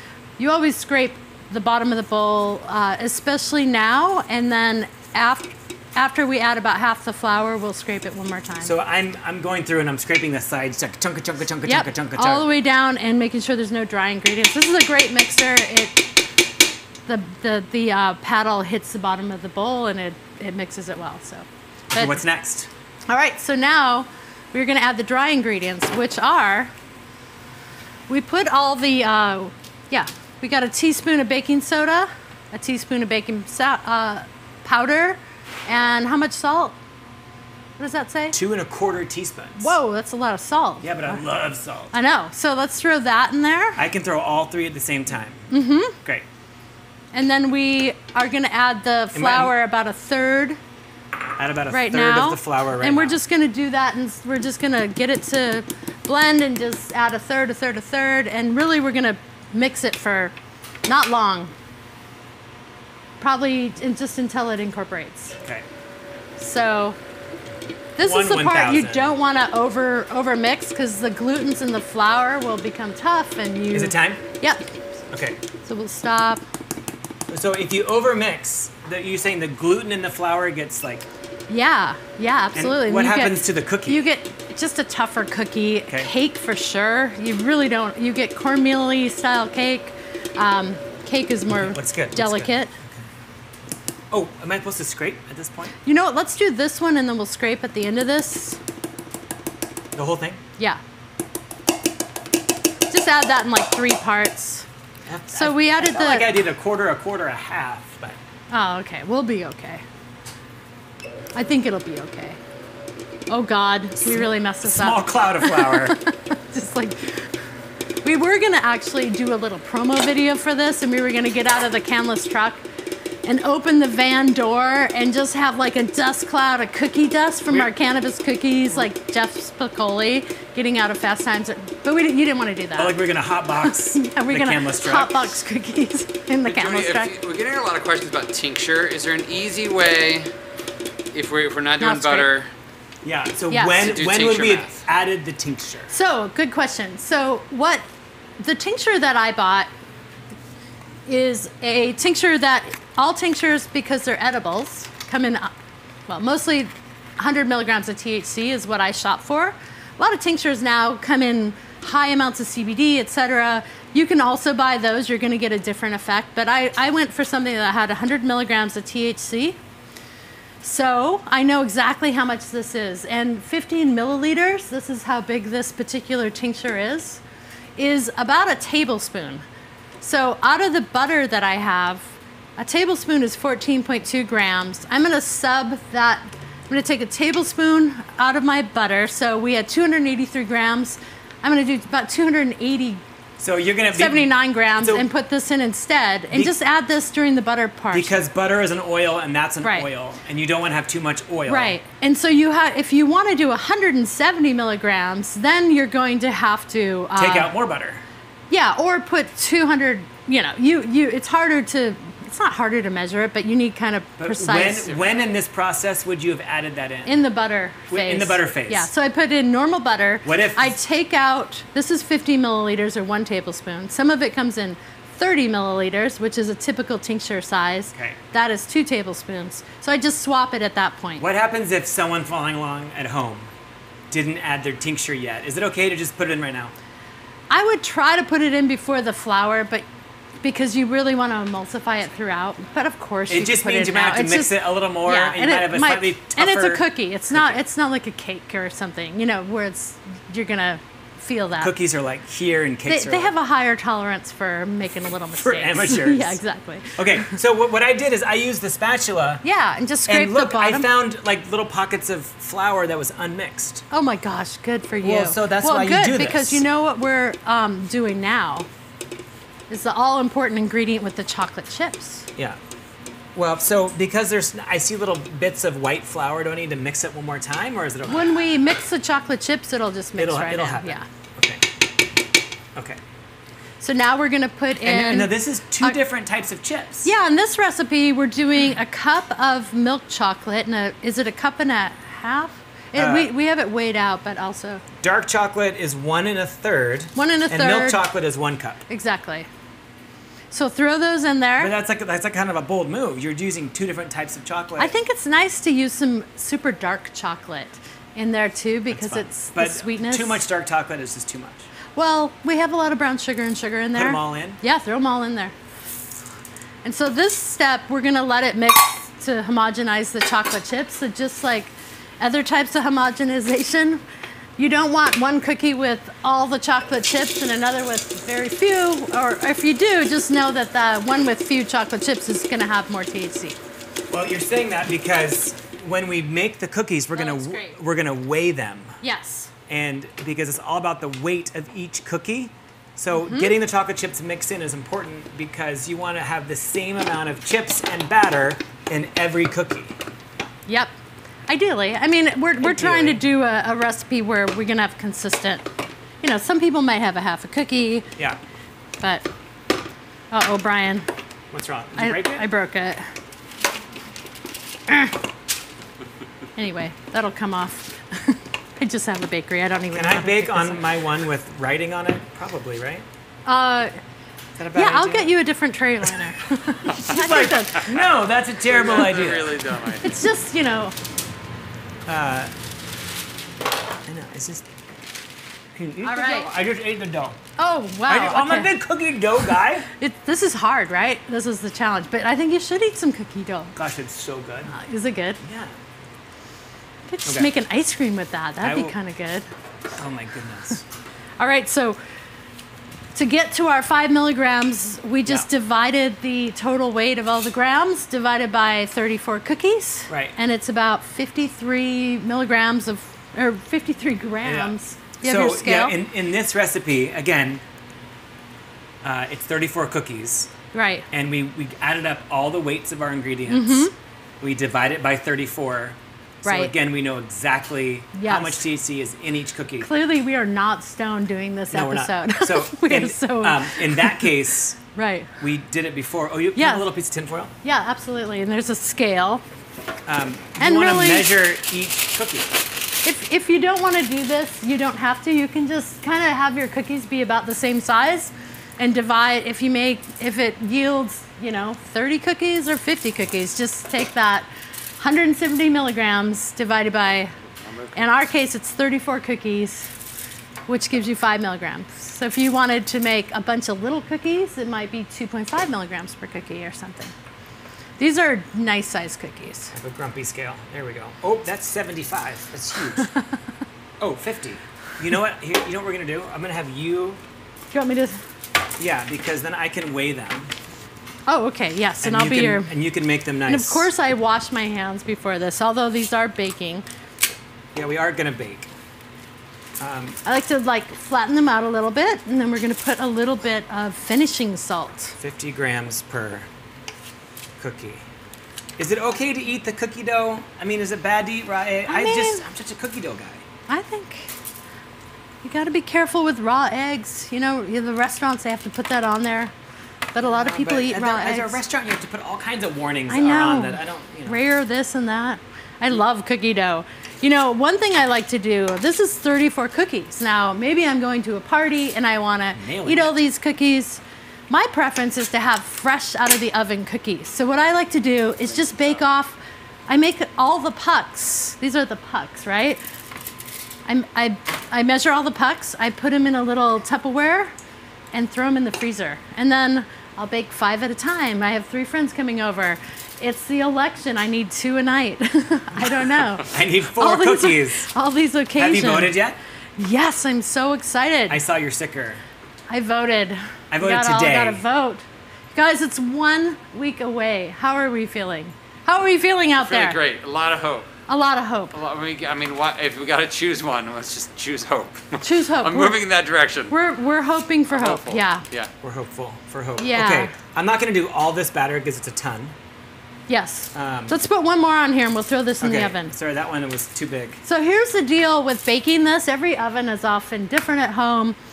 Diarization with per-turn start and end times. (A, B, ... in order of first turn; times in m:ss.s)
0:00.4-0:08.7 A
0:08.6-0:12.5 B
0:11.6-0:16.1 A
0:17.1-0:22.2 A
0:21.9-0:22.7 B
0:23.1-0:26.7 A
0:28.1-0:36.7 A
0:37.8-0:38.4 A
0:38.3-0:39.8 B
0:39.6-0:41.2 A
0:40.8-0:41.9 B
0:41.9-0:43.8 A
0:43.8-0:45.5 B
0:45.5-0:46.0 A
0:47.1-0:50.6 A
0:49.1-0:49.5 B
0:51.4-0:53.2 B
0:51.7-1:00.3 A
1:00.9-1:01.5 A
1:03.2-1:05.4 A
1:06.4-1:07.0 A
1:08.0-1:14.7 A
1:08.0-1:09.1 B
1:13.7-1:14.2 B
1:15.1-1:15.4 B
1:15.6-1:16.4 A
1:17.3-1:21.1 B
1:21.5-1:32.7 A
1:22.5-1:24.1 B
1:31.5-1:33.0 B
1:34.1-1:35.7 B
1:35.8-1:38.6 A
1:39.9-1:40.4 B
1:42.9-1:44.7 A
1:45.1-1:48.2 B
1:45.3-1:46.4 A
1:48.5-1:49.8 A
1:51.3-1:52.4 A
1:53.3-1:57.3 A
1:54.0-1:56.0 B
1:58.0-2:02.6 A
2:03.2-2:13.0 A
2:12.8-2:15.4 B
2:13.6-2:17.1 A
2:16.5-2:20.3 C
2:21.1-2:22.5 C
2:21.8-2:22.3 A
2:23.0-2:25.9 B
2:23.5-2:23.9 A
2:23.8-2:24.7 C
2:25.9-2:27.8 A
2:28.4-2:29.7 A
2:31.1-2:35.5 A
2:36.1-2:49.6 A
2:50.6-2:57.2 A
2:57.8-2:59.4 A
3:00.0-3:13.0 A
3:13.4-3:15.1 B
3:13.9-3:18.2 A
3:16.3-3:16.6 B
3:17.9-3:21.8 B
3:21.5-3:27.5 A
3:27.2-3:28.0 B
3:28.5-3:35.0 A
3:34.2-3:37.2 B
3:37.0-3:51.2 A
3:37.9-3:38.9 B
3:40.2-3:40.8 B
3:51.2-3:53.5 B
3:54.1-3:56.7 B
3:57.5-3:59.8 A
4:00.4-4:11.7 A
4:03.3-4:07.6 B
4:11.6-4:13.3 B
4:12.8-4:17.4 A
4:15.3-4:16.4 B
4:17.0-4:19.4 B
4:19.4-4:20.9 A
4:20.1-4:23.8 B
4:23.9-4:28.7 A
4:25.0-4:26.6 B
4:29.7-4:32.3 A
4:33.3-4:38.3 B
4:38.1-4:41.1 A
4:40.2-4:41.6 B
4:43.8-4:46.0 A
4:44.8-4:47.1 B
4:47.0-4:54.8 A
4:53.0-4:53.3 B
4:55.0-4:58.8 B
4:57.2-4:58.0 A
4:58.9-4:59.5 A
5:00.5-5:01.7 A
5:01.6-5:04.9 B
5:04.8-5:10.4 A
5:08.9-5:11.6 B
5:12.0-5:15.5 A
5:13.9-5:14.6 B
5:16.8-5:24.0 A
5:24.6-5:33.6 A
5:34.1-5:39.0 B
5:37.1-5:37.8 A
5:39.0-5:39.5 A
5:39.7-5:50.0 B
5:43.1-5:43.5 A
5:50.7-5:50.9 A
5:51.5-5:55.7 A
5:52.6-5:53.2 B
5:56.2-5:58.1 A
5:59.0-5:59.2 A
6:00.3-6:01.1 A
6:01.5-6:02.5 B
6:02.0-6:03.1 A
6:04.9-6:05.1 A
6:06.6-6:10.8 A
6:09.9-6:13.0 B
6:13.4-6:13.9 A
6:14.6-6:15.4 B
6:14.7-6:17.9 A
6:16.8-6:19.6 B
6:18.7-6:20.0 C
6:20.0-6:20.9 A
6:22.0-6:22.5 B
6:24.1-6:24.7 B
6:25.7-6:27.4 B
6:26.0-6:26.5 A
6:27.6-6:28.7 A
6:28.1-6:29.9 B
6:29.9-6:33.8 A
6:33.8-6:34.7 B
6:34.7-6:35.4 A
6:35.4-6:35.7 B
6:37.1-6:39.5 A
6:37.2-6:37.5 B
6:38.6-6:39.0 B
6:40.0-6:40.8 B
6:41.4-6:42.0 A
6:43.1-6:56.0 A
6:50.1-6:50.3 B
6:54.4-6:57.6 B
6:59.0-7:00.5 B
7:00.7-7:01.1 A
7:01.1-7:09.9 B
7:03.5-7:03.9 A
7:06.4-7:06.7 A
7:08.1-7:08.6 A
7:09.8-7:14.3 A
7:11.7-7:14.8 B
7:14.9-7:15.3 A
7:15.4-7:17.5 B
7:16.6-7:16.9 A
7:17.6-7:19.4 A
7:20.1-7:22.6 B
7:20.6-7:21.3 A
7:23.0-7:34.5 A
7:35.0-7:37.3 A
7:37.9-7:39.9 A
7:40.7-7:47.1 A
7:48.0-7:49.7 A
7:49.7-7:53.1 B
7:53.0-7:53.4 A
7:54.0-7:57.2 B
7:57.7-7:58.2 A
7:58.8-8:00.5 B
8:01.3-8:02.7 A
8:02.0-8:03.9 B
8:03.5-8:06.8 A
8:07.7-8:08.7 B
8:09.8-8:10.2 B
8:10.2-8:15.2 A
8:15.2-8:16.5 B
8:17.6-8:18.0 B
8:18.8-8:23.4 B
8:21.9-8:22.4 A
8:23.7-8:24.3 A
8:25.4-8:29.5 A
8:30.1-8:31.6 A
8:30.2-8:34.4 B
8:33.1-8:52.8 A
8:42.6-8:43.2 B
8:53.8-8:57.5 A
8:58.1-9:09.1 A
9:06.4-9:07.9 B
9:08.6-9:09.4 B
9:09.8-9:11.4 A
9:11.3-9:12.2 B
9:12.7-9:20.0 A
9:13.7-9:14.6 B
9:19.6-9:20.9 C
9:21.1-9:21.7 A
9:21.7-9:26.7 C
9:25.2-9:26.0 A
9:26.7-9:28.4 A
9:27.7-9:28.7 C
9:28.8-9:32.5 B
9:29.8-9:30.3 A
9:33.3-9:36.1 A
9:33.7-9:34.2 B
9:35.6-9:37.4 B
9:37.4-9:41.4 A